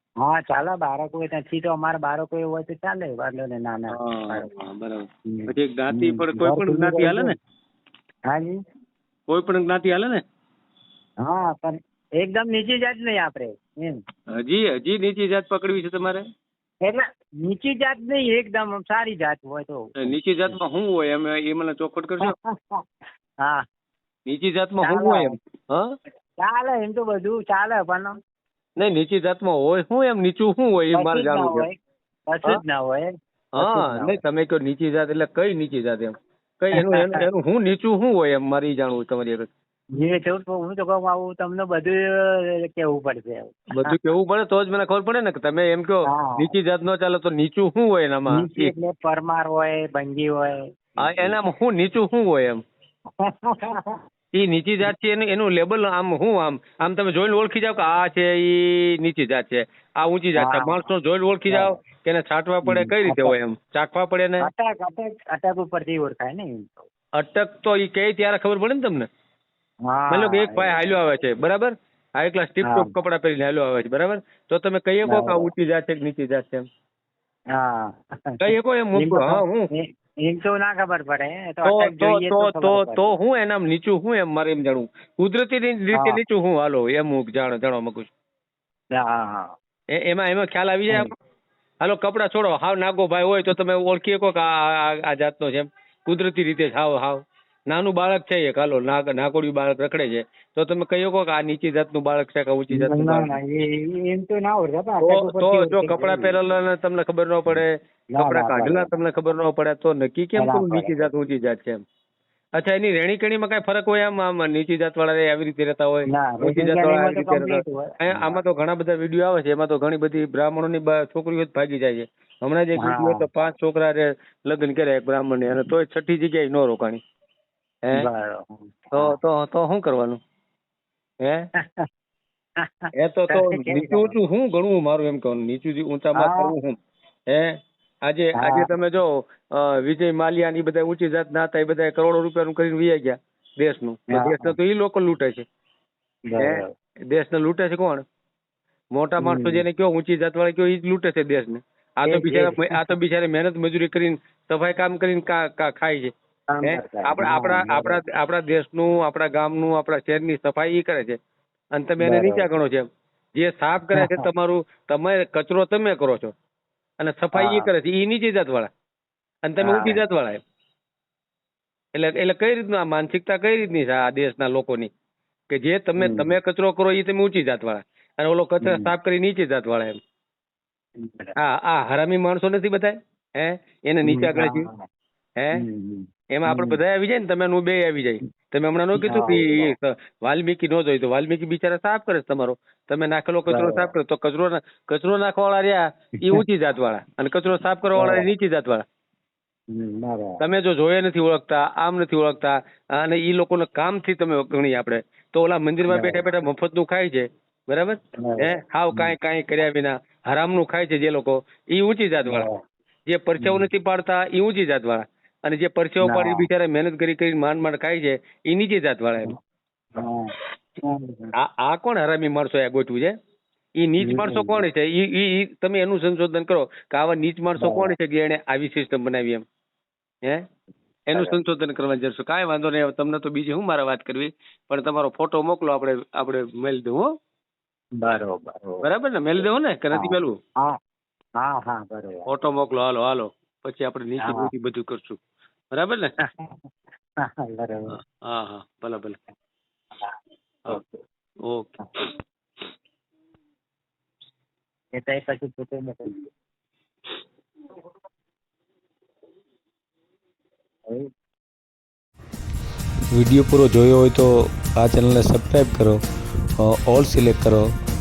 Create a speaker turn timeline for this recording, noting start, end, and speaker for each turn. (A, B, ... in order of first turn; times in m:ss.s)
0:00.2-0:04.5 A
0:03.9-0:07.3 B
0:05.3-0:07.3 A
0:08.3-0:08.6 A
0:09.3-0:10.2 B
0:11.2-0:14.0 A
0:14.3-0:16.2 B
0:16.8-0:20.1 A
0:20.0-0:22.4 B
0:22.2-0:22.8 A
0:24.3-0:25.9 B
0:24.8-0:25.4 A
0:26.4-0:28.2 A
0:28.8-0:31.7 B
0:30.9-0:31.8 A
0:32.3-0:34.2 A
0:33.6-0:39.5 B
0:36.8-0:37.2 A
0:40.0-0:43.9 A
0:43.7-0:48.7 B
0:46.1-0:46.5 A
0:48.3-0:51.4 A
0:51.0-0:52.6 B
0:53.2-0:54.0 A
0:54.3-1:04.5 B
1:00.4-1:00.9 A
1:02.6-1:03.3 A
1:04.4-1:06.9 A
1:07.2-1:09.1 B
1:09.9-1:10.8 A
1:10.1-1:16.6 B
1:12.6-1:12.9 A
1:15.1-1:15.5 A
1:17.5-1:18.4 A
1:18.4-1:19.7 B
1:18.9-1:23.1 A
1:21.6-1:28.1 B
1:25.9-1:26.2 A
1:28.9-1:29.5 A
1:29.9-1:31.1 B
1:31.8-1:43.3 B
1:42.7-1:46.4 A
1:45.0-1:51.8 B
1:48.1-1:48.9 A
1:50.4-1:51.1 A
1:52.6-2:07.0 B
1:56.1-1:58.4 A
2:02.8-2:03.2 A
2:07.9-2:09.2 A
2:08.9-2:10.2 B
2:12.6-2:14.1 A
2:13.0-2:16.8 B
2:16.2-2:16.5 A
2:17.3-2:25.4 B
2:18.4-2:18.7 A
2:24.1-2:24.5 A
2:26.3-2:26.7 A
2:26.4-2:28.0 B
2:28.9-2:36.1 B
2:29.2-2:29.6 A
2:32.0-2:32.9 A
2:36.5-2:38.0 A
2:36.6-2:41.2 B
2:41.7-2:46.3 B
2:42.0-2:42.5 A
2:43.9-2:44.2 A
2:47.0-2:48.7 B
2:47.3-2:47.7 A
2:49.4-2:50.4 B
2:49.6-2:50.0 A
2:51.9-2:54.9 B
2:55.5-3:00.0 B
2:56.0-2:56.3 A
2:58.6-2:58.9 A
3:01.0-3:01.3 A
3:01.4-3:04.7 B
3:04.0-3:04.8 A
3:05.5-3:06.8 A
3:06.3-3:18.8 B
3:09.0-3:09.7 A
3:13.5-3:13.9 A
3:17.9-3:18.3 A
3:19.7-3:20.4 A
3:20.4-3:32.5 B
3:25.9-3:26.3 A
3:28.2-3:29.1 A
3:32.2-3:32.6 A
3:33.1-3:39.3 B
3:33.4-3:33.7 A
3:36.0-3:36.5 A
3:40.0-3:41.3 A
3:41.4-3:43.1 B
3:43.8-3:49.4 B
3:44.0-3:44.6 A
3:47.6-3:47.9 A
3:51.1-3:57.1 B
3:51.1-3:51.4 A
3:58.0-3:58.8 A
3:58.8-4:00.4 B
3:59.9-4:00.8 A
4:01.4-4:02.3 A
4:02.3-4:05.2 B
4:04.2-4:04.5 A
4:05.8-4:06.1 B
4:06.2-4:06.6 A
4:07.2-4:07.9 A
4:07.9-4:09.2 B
4:10.7-4:11.0 A
4:11.5-4:11.8 B
4:14.9-4:16.3 A
4:23.1-4:26.0 C
4:26.6-4:27.7 C